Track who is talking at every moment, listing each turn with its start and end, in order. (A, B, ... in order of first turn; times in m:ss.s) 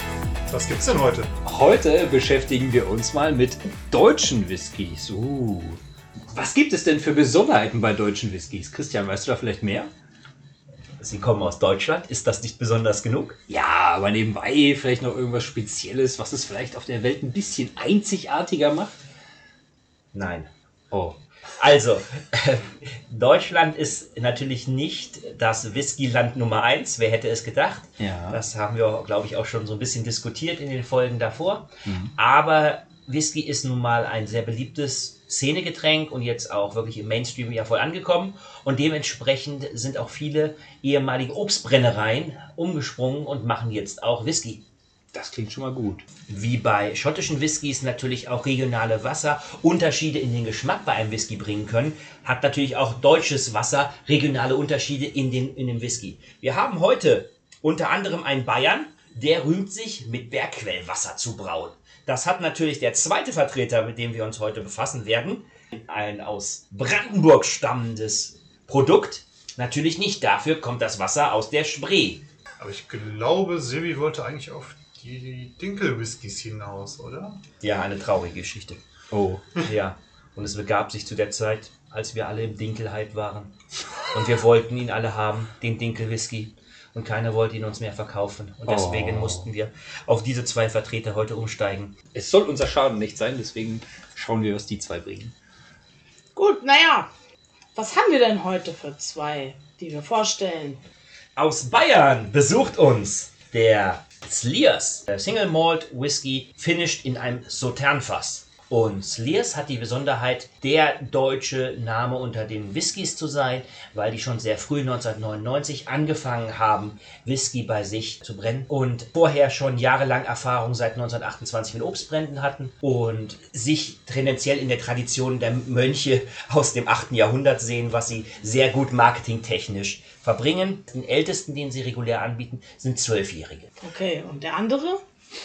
0:00.5-0:01.4 A
0:01.4-0:05.8 B
0:06.3-0:09.9 B
0:11.0-0:13.4 C
0:13.5-0:19.0 B
0:20.1-0:20.5 C
0:20.9-0:21.2 B
0:21.6-0:44.6 C
0:28.0-0:28.4 B
0:31.8-0:32.1 B
0:45.1-0:46.0 B
0:46.3-1:12.2 C
1:12.6-1:17.4 A
1:17.6-1:18.8 C
1:19.1-1:19.4 B
1:19.6-1:23.5 C
1:24.1-1:31.9 C
1:28.7-1:29.5 B
1:32.1-1:35.3 B
1:36.3-1:37.1 D
1:37.7-1:40.8 D
1:41.4-2:13.7 C
2:13.8-2:15.0 D